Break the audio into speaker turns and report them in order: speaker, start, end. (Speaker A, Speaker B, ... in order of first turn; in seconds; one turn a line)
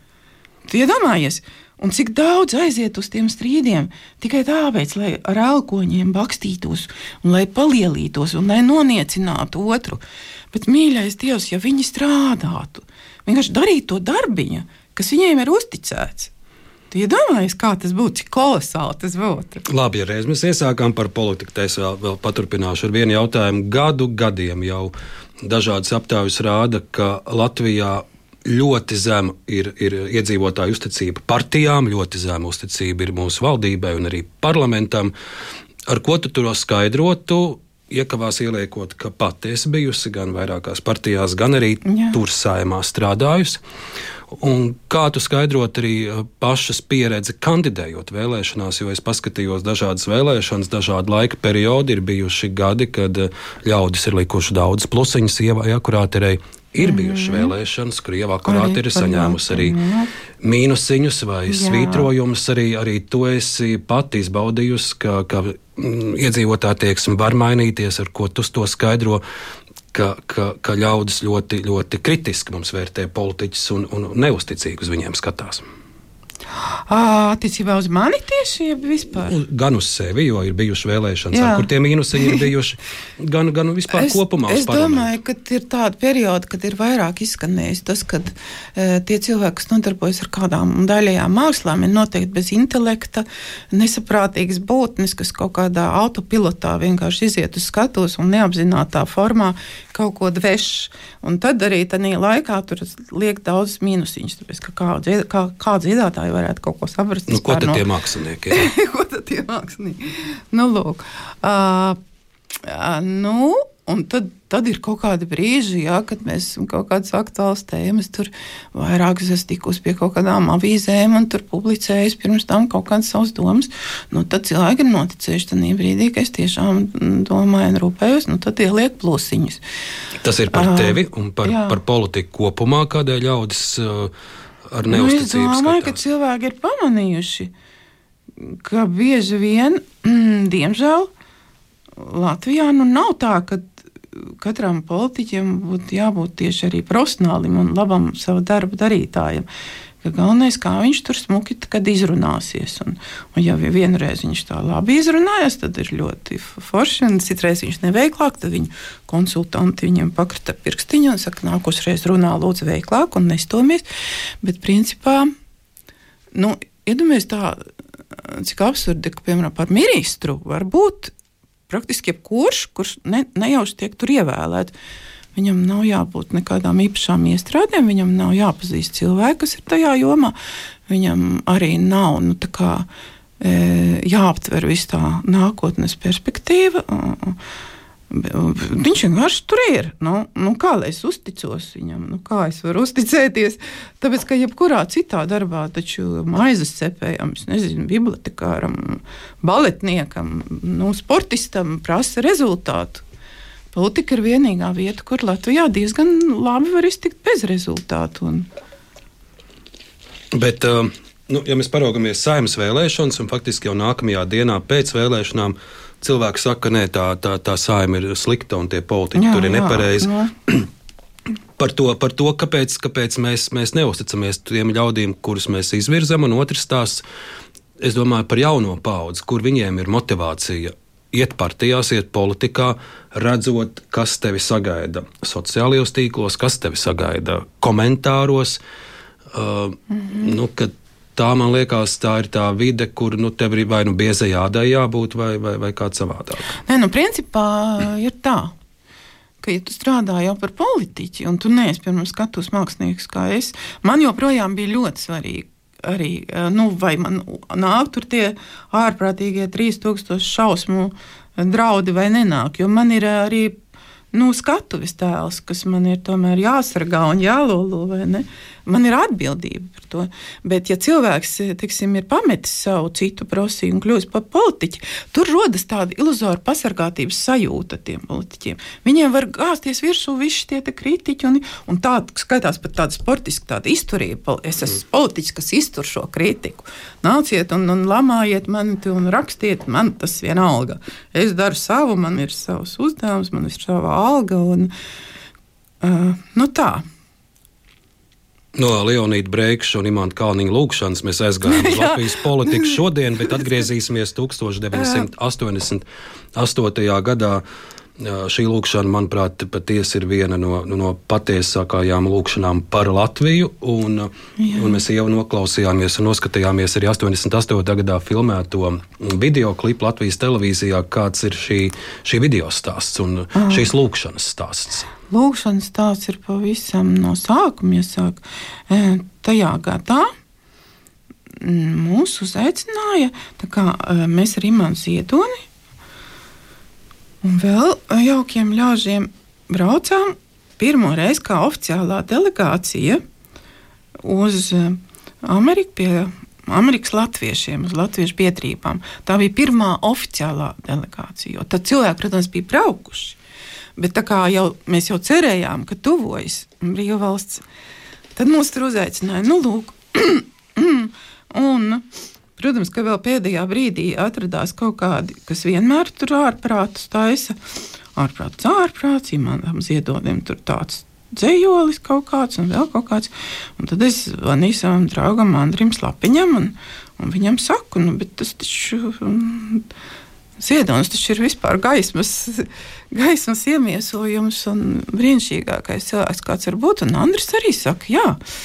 Speaker A: 0.7-10.0
Speaker A: 10.5-16.3
Speaker A: 16.9-19.6
Speaker B: 19.7-24.9
Speaker B: 25.4-35.1
Speaker B: 35.9-43.6
Speaker A: 41.9-42.2
Speaker B: 44.3-59.8
Speaker A: 56.8-57.5
Speaker A: 58.5-60.1
Speaker B: 60.4-69.2
Speaker A: 61.5-62.1
Speaker B: 69.9-75.7
Speaker A: 76.9-79.4
Speaker B: 79.3-85.1
Speaker A: 81.3-82.5
Speaker A: 83.9-107.8
Speaker B: 107.3-108.7
Speaker A: 108.5-112.0
Speaker A: 112.6-129.6
Speaker B: 130.2-134.1
Speaker A: 130.5-131.8
Speaker B: 134.7-136.0
Speaker A: 134.9-137.5
Speaker A: 138.4-141.1
Speaker A: 142.0-149.5
Speaker A: 150.0-163.8
Speaker A: 164.4-165.3
Speaker A: 166.3-167.6
Speaker A: 168.2-171.1
Speaker A: 171.7-174.7
Speaker A: 175.3-180.3
Speaker A: 180.9-182.9
Speaker A: 183.4-187.4
Speaker A: 188.1-203.0
Speaker A: 203.7-208.5
Speaker B: 210.3-220.7
Speaker A: 219.2-220.3
Speaker B: 221.6-227.0
Speaker B: 227.8-238.6
Speaker B: 239.3-246.6
Speaker A: 239.9-240.3
Speaker A: 246.7-248.5
Speaker A: 249.4-263.6
Speaker A: 264.1-294.7
Speaker A: 295.8-296.9
Speaker B: 298.6-307.4
Speaker A: 301.4-303.5
Speaker A: 304.7-305.1
Speaker B: 308.0-324.9
Speaker A: 314.4-314.8
Speaker A: 323.4-323.7
Speaker A: 325.1-330.1
Speaker A: 331.4-335.4
Speaker A: 337.2-343.0
Speaker A: 344.0-353.2
Speaker A: 353.8-357.4
Speaker A: 358.2-361.9
Speaker A: 362.4-367.4
Speaker A: 368.0-379.6
Speaker A: 380.4-388.2